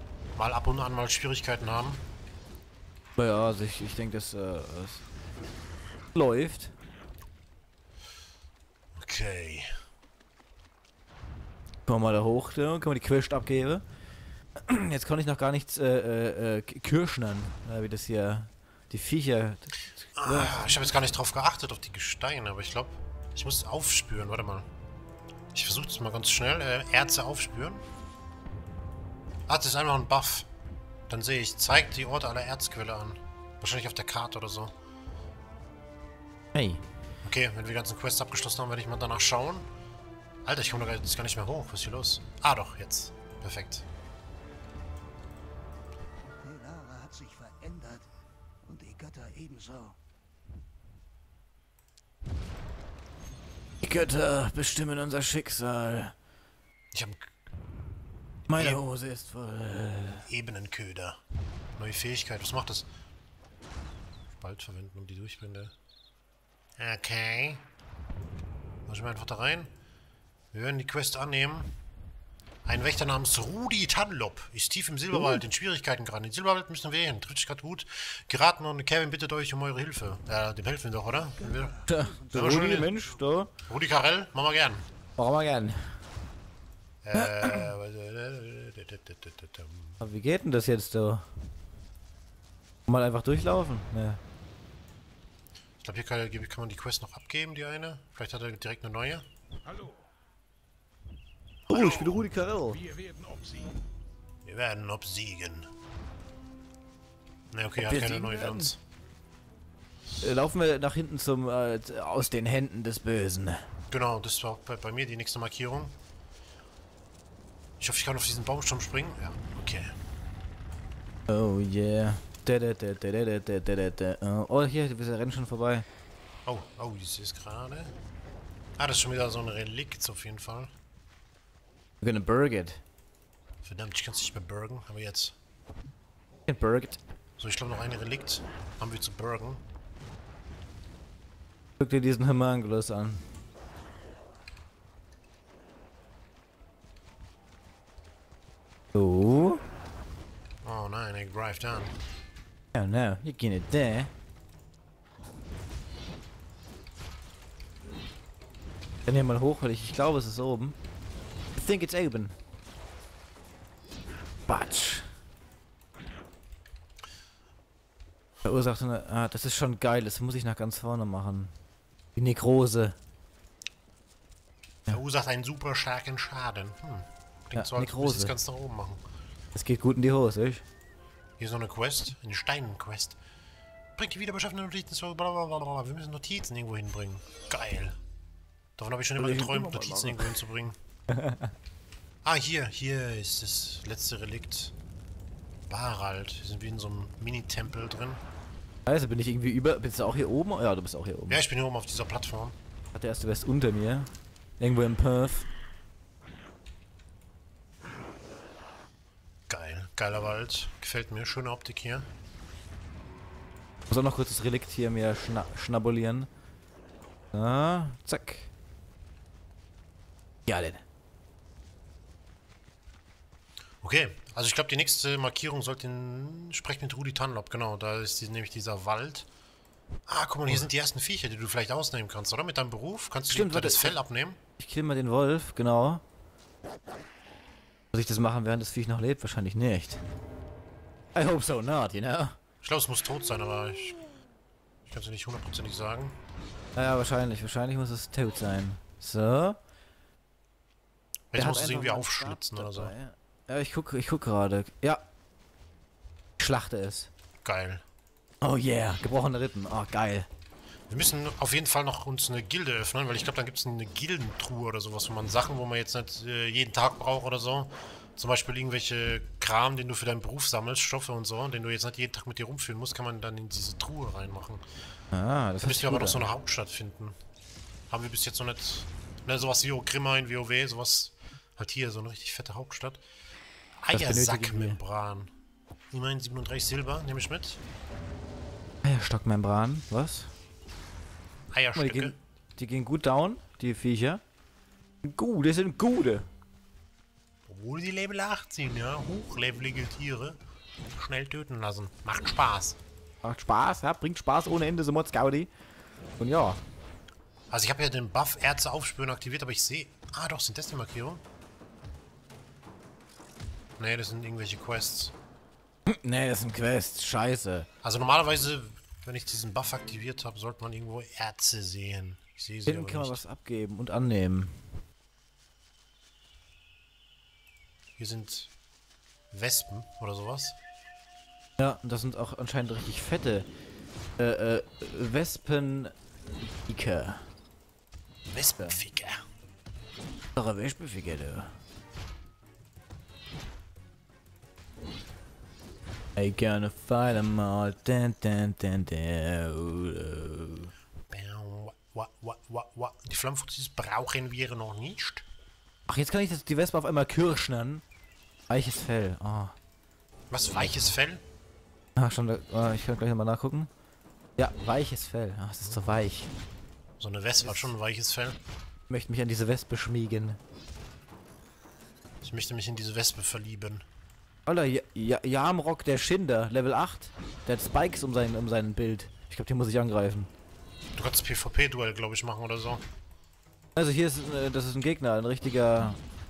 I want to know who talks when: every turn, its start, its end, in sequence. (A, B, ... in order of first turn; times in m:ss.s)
0:00.4-0:02.1 A
0:03.2-0:05.0 B
0:06.1-0:06.7 B
0:09.0-0:09.8 A
0:11.9-0:13.8 B
0:14.6-0:20.9 B
0:20.2-0:24.7 A
0:25.5-0:27.8 A
0:29.5-0:30.5 A
0:31.1-0:34.7 A
0:36.5-0:36.8 B
0:37.2-0:39.7 A
0:40.4-0:43.9 A
0:46.6-0:48.0 C
0:48.8-0:49.8 C
0:53.8-0:56.1 B
0:56.9-0:57.2 A
0:58.5-1:00.3 B
0:58.5-0:58.8 A
1:00.3-1:01.2 A
1:01.8-1:02.9 A
1:04.4-1:05.7 A
1:06.8-1:07.7 A
1:08.9-1:09.7 A
1:10.5-1:11.8 A
1:12.6-1:23.0 A
1:21.9-1:23.5 B
1:23.7-1:24.9 A
1:25.2-1:26.0 B
1:27.0-1:30.0 A
1:27.1-1:27.7 B
1:30.0-1:31.3 B
1:32.9-1:34.2 B
1:35.8-1:39.2 A
1:41.7-1:42.3 A
1:41.7-1:43.0 B
1:44.4-1:45.7 A
1:47.5-1:48.8 A
1:47.8-1:48.7 B
1:50.2-1:53.7 B
1:53.9-1:56.0 A
1:57.8-2:00.0 A
2:01.3-2:05.9 B
2:06.5-2:07.9 A
2:08.8-2:10.7 A
2:12.0-2:12.8 B
2:13.6-2:15.4 A
2:16.5-2:17.0 B
2:17.4-2:19.6 A
2:21.8-2:23.2 B
2:28.9-2:29.6 B
2:30.6-2:32.0 A
2:32.7-2:34.1 B
2:39.1-2:40.8 B
2:41.6-2:42.4 B
2:44.5-2:45.1 B
2:48.4-2:51.5 B
2:52.2-2:53.0 B
2:54.9-2:59.0 A
2:57.6-2:58.4 B
2:59.6-3:00.6 B
3:01.4-3:03.2 A
3:04.0-3:08.0 A
3:08.8-3:10.8 A
3:09.2-3:10.4 B
3:11.1-3:11.5 B
3:12.2-3:14.8 A
3:15.7-3:18.2 A
3:18.9-3:21.4 B
3:21.3-3:22.6 A
3:22.9-3:25.5 B
3:29.5-3:32.1 A
3:33.9-3:36.3 B
3:37.3-3:38.5 B
3:40.5-3:40.8 B
3:43.8-3:49.3 A
3:50.1-3:54.4 A
3:53.3-3:54.0 B
3:54.6-3:56.0 B
3:57.9-4:00.0 B
4:01.2-4:02.4 B
4:02.6-4:04.0 A
4:04.9-4:06.2 A
4:06.8-4:09.6 B
4:11.3-4:12.9 A
4:11.3-4:15.0 B
4:16.4-4:17.1 B
4:17.4-4:17.8 A
4:18.4-4:20.3 B
4:20.9-4:34.6 A
4:35.1-4:36.3 B
4:35.6-4:37.2 A
4:37.9-4:43.0 A
4:43.8-4:45.3 A
4:43.9-4:44.8 B
4:45.9-4:47.6 A
4:48.8-4:50.3 B
4:51.5-4:52.2 A
4:51.8-4:54.2 B
4:55.0-4:56.3 B
4:57.5-5:00.4 A
5:01.0-5:02.8 A
5:03.2-5:05.5 B
5:06.2-5:06.6 B
5:07.5-5:11.2 A
5:13.8-5:15.2 A
5:15.9-5:17.7 B
5:17.8-5:23.2 A
5:22.7-5:24.7 B
5:28.0-5:28.5 A
5:29.3-5:30.6 A
5:31.6-5:33.5 B
5:34.2-5:35.9 B
5:36.6-5:37.3 B
5:38.3-5:39.2 A
5:40.4-5:41.5 B
5:46.2-5:50.7 B
5:51.1-5:55.2 A
5:55.9-5:57.8 B
5:58.5-5:59.6 B
6:00.3-6:01.2 A
6:02.0-6:03.7 B
6:04.4-6:06.3 B
6:05.6-6:06.0 A
6:07.0-6:08.4 A
6:07.4-6:07.7 B
6:08.9-6:10.4 B
6:12.2-6:13.9 A
6:14.5-6:20.3 B
6:21.0-6:22.8 A
6:23.8-6:26.0 B